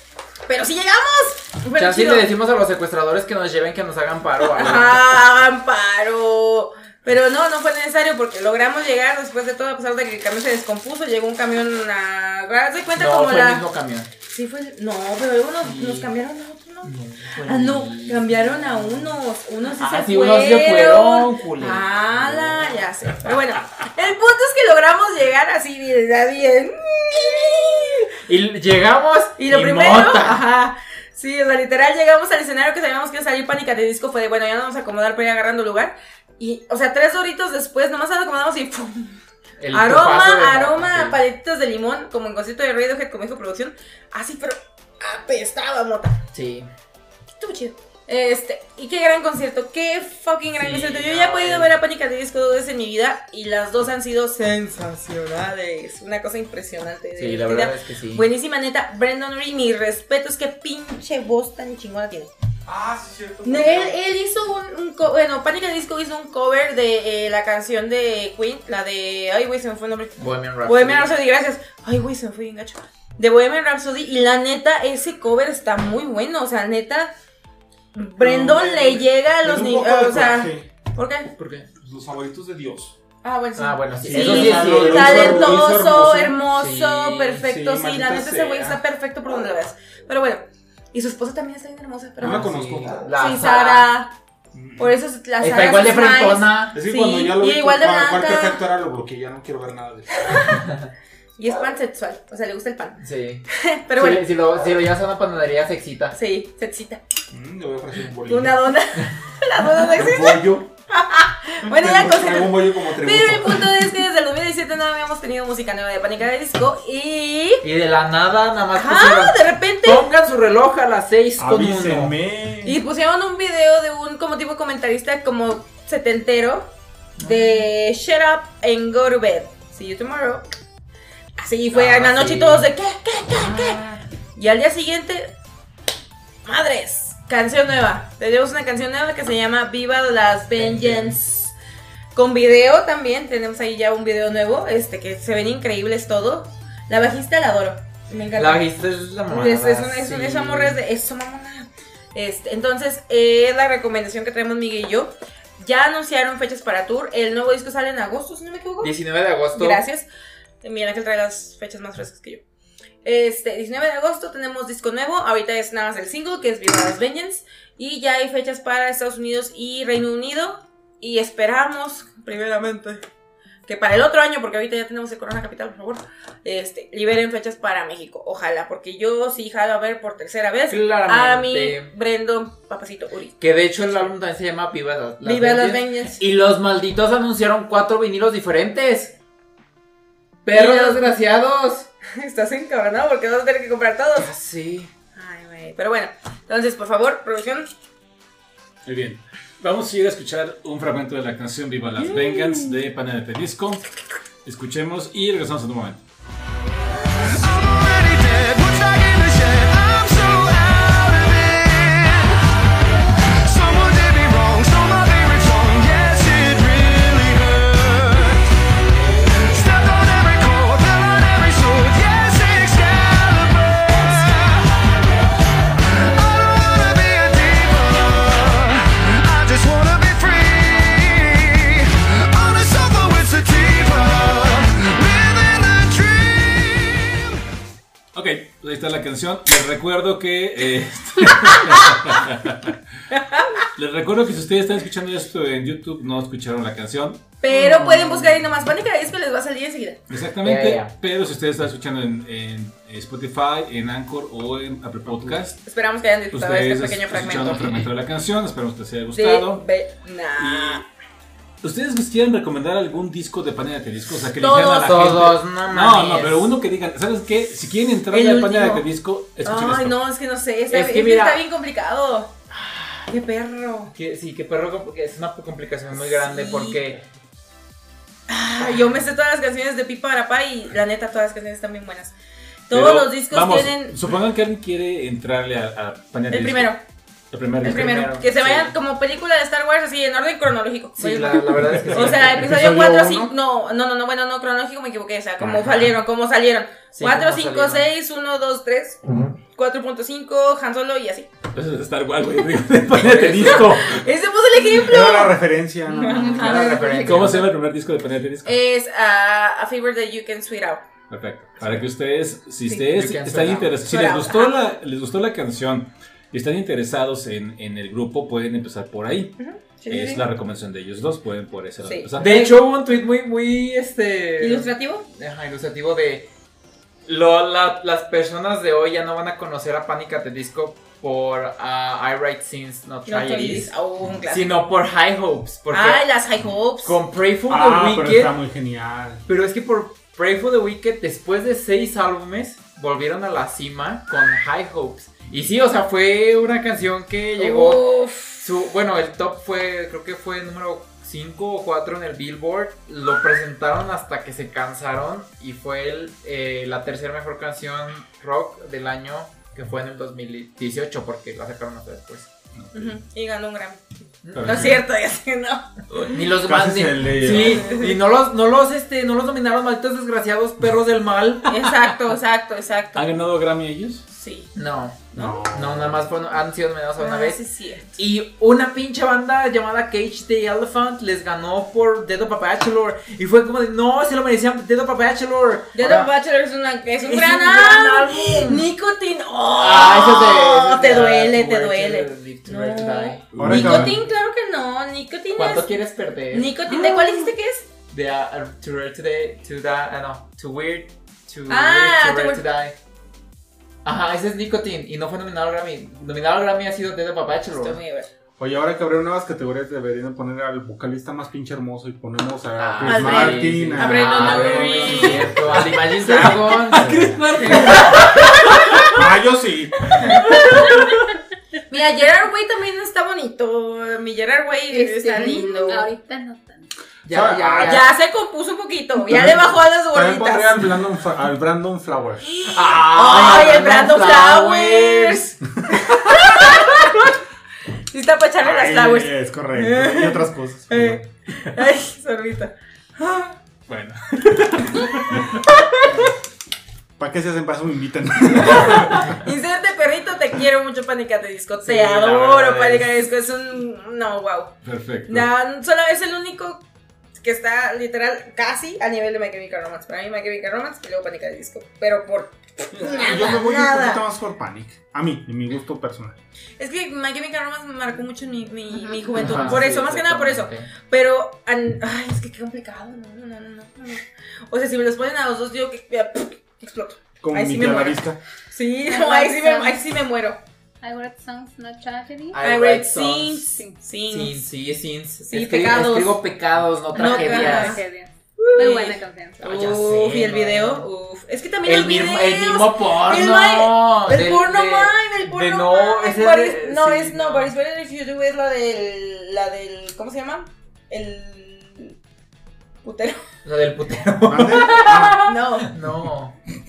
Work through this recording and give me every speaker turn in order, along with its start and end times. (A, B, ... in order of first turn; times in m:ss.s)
0:00.4-0:02.3 A
0:01.8-0:05.2 B
0:04.5-0:13.7 A
0:12.9-0:14.1 B
0:14.3-0:28.0 A
0:15.6-0:16.1 B
0:16.8-0:19.2 B
0:19.7-0:22.8 B
0:28.2-0:30.4 B
0:29.4-0:46.2 A
0:39.6-0:41.2 B
0:46.3-0:46.7 B
0:47.3-1:02.3 A
0:50.5-0:51.7 B
0:57.2-0:58.2 B
1:02.6-1:04.0 C
1:03.4-1:17.1 A
1:10.2-1:11.1 B
1:17.9-1:21.3 A
1:18.2-1:20.7 C
1:21.4-1:21.7 B
1:21.8-1:23.0 C
1:23.2-1:32.5 A
1:23.6-1:25.7 B
1:24.0-1:26.4 C
1:26.4-1:27.5 B
1:27.4-1:28.8 C
1:32.2-1:33.0 C
1:32.2-1:33.9 B
1:33.1-1:34.1 A
1:34.5-1:34.9 C
1:34.8-1:38.6 A
1:35.4-1:36.8 B
1:36.7-1:40.5 C
1:40.3-1:40.6 A
1:40.6-1:40.9 B
1:41.4-1:44.2 A
1:43.0-1:46.2 B
1:46.1-1:47.0 A
1:47.3-1:48.6 C
1:48.3-1:57.6 A
1:50.0-1:50.6 C
1:50.0-1:50.4 D
1:51.7-1:53.9 C
1:57.6-2:02.1 B
1:58.7-2:00.1 A
2:01.4-2:02.8 C
2:02.6-2:10.5 A
2:07.2-2:07.7 B
2:11.4-2:13.8 A
2:11.7-2:12.7 B
2:13.3-2:14.0 B
2:14.3-2:15.3 A
2:16.4-2:21.5 A
2:20.6-2:21.2 B
2:22.1-2:39.0 A
2:28.4-2:30.8 B
2:38.8-2:39.8 B
2:39.5-2:40.1 A
2:40.6-2:42.4 A
2:43.0-2:53.0 A
2:53.6-3:03.4 A
3:00.7-3:01.9 B
3:03.4-3:09.2 B
3:05.2-3:06.2 A
3:10.4-3:11.9 B
3:10.5-3:11.1 A
3:12.1-3:14.3 A
3:14.2-3:14.9 B
3:15.1-3:17.7 A
3:18.8-3:23.8 D
3:22.0-3:22.7 A
3:24.4-3:26.0 D
3:27.2-3:32.4 E
3:33.4-3:38.4 E
3:39.2-3:44.8 E
3:45.8-3:57.4 E
3:58.1-4:02.8 D
4:03.1-4:03.6 A
4:03.7-4:07.2 D
4:07.4-4:10.0 A
4:07.5-4:08.3 B
4:10.1-4:15.6 D
4:10.4-4:10.9 B
4:15.6-4:17.8 A
4:16.3-4:19.6 D
4:17.6-4:17.8 B
4:19.1-4:20.8 A
4:20.4-4:20.8 D
4:21.6-4:30.0 D
4:24.4-4:24.9 A
4:24.8-4:26.5 B
4:28.1-4:28.9 A
4:29.4-4:32.4 A
4:30.7-4:31.4 B
4:32.5-4:33.1 B
4:33.1-4:33.9 A
4:33.9-4:37.0 B
4:35.9-4:36.8 A
4:38.3-4:42.1 A
4:38.6-4:38.9 B
4:42.7-4:44.1 A
4:42.7-4:46.8 D
4:46.3-4:46.8 A
4:47.3-4:48.0 D
4:47.6-4:48.7 B
4:47.6-5:01.3 A
4:51.0-4:52.6 B
4:52.3-4:53.3 C
4:55.4-4:55.9 B
4:56.9-4:57.9 B
5:01.5-5:04.0 D
5:03.0-5:03.6 B
5:03.2-5:05.4 A
5:04.7-5:06.5 C
5:05.9-5:07.4 F
5:06.0-5:06.9 A
5:06.3-5:07.4 B
5:07.0-5:08.6 D
5:08.4-5:10.8 A
5:11.1-5:19.4 D
5:12.9-5:13.8 B
5:13.8-5:14.6 A
5:19.4-5:20.2 A
5:19.9-5:22.5 D
5:21.8-5:22.5 A
5:22.2-5:26.3 B
5:24.4-5:25.1 A
5:27.0-5:36.1 B
5:33.0-5:34.7 A
5:35.7-5:37.0 A
5:36.8-5:38.3 B
5:37.5-5:39.2 C
5:39.2-5:47.9 B
5:47.4-5:48.4 A
5:48.4-6:02.3 B
6:02.6-6:02.8 D
6:02.7-6:03.8 A
6:04.2-6:04.8 B
6:04.3-6:04.8 D
6:04.4-6:06.2 A
6:06.0-6:11.7 B
6:06.4-6:07.7 C
6:07.3-6:08.0 A
6:11.5-6:13.1 A
6:12.9-6:14.0 D
6:14.1-6:14.5 A
6:14.5-6:17.4 B
6:15.2-6:16.0 C
6:17.0-6:18.0 A
6:18.0-6:26.1 B
6:25.7-6:35.8 A
6:25.8-6:26.1 C
6:27.0-6:28.7 B
6:29.6-6:33.9 B
6:33.3-6:34.0 C
6:33.4-6:33.8 D
6:35.3-6:37.2 B
6:36.3-6:37.7 A
6:37.9-6:42.8 B
6:41.5-6:42.4 A
6:43.8-6:47.8 B
6:47.5-6:48.1 A
6:48.4-6:55.6 C
6:52.6-6:58.9 B
6:52.8-6:56.4 A
6:56.0-6:58.9 D
6:57.4-6:57.8 A
6:58.9-7:00.0 C
7:00.0-7:00.9 A
7:00.4-7:00.9 D
7:01.7-7:05.9 A
7:04.7-7:06.7 F
7:07.0-7:07.9 B
7:07.1-7:07.8 C
7:07.6-7:10.7 A
7:09.1-7:12.3 C
7:12.2-7:17.1 A
7:12.4-7:15.3 B
7:17.9-7:23.4 A
7:18.4-7:21.1 C
7:23.7-7:25.4 D
7:24.7-7:26.1 A
7:27.0-7:29.0 C
7:28.4-7:36.6 A
7:31.6-7:32.9 B
7:34.6-7:35.3 D
7:37.2-7:44.0 A
7:42.7-7:46.2 C
7:46.6-8:00.4 A
7:48.7-7:49.0 F
7:49.1-7:50.7 B
7:57.2-7:58.2 C
7:58.8-7:59.8 F
8:00.8-8:02.4 F
8:02.3-8:07.8 B
8:02.4-8:04.4 A
8:05.3-8:06.2 A
8:06.9-8:07.8 A
8:06.9-8:09.5 F
8:08.4-8:22.0 A
8:09.4-8:10.9 B
8:11.6-8:17.5 B
8:22.8-8:23.3 A
8:23.4-8:26.4 B
8:24.2-8:25.3 C
8:25.2-8:25.7 A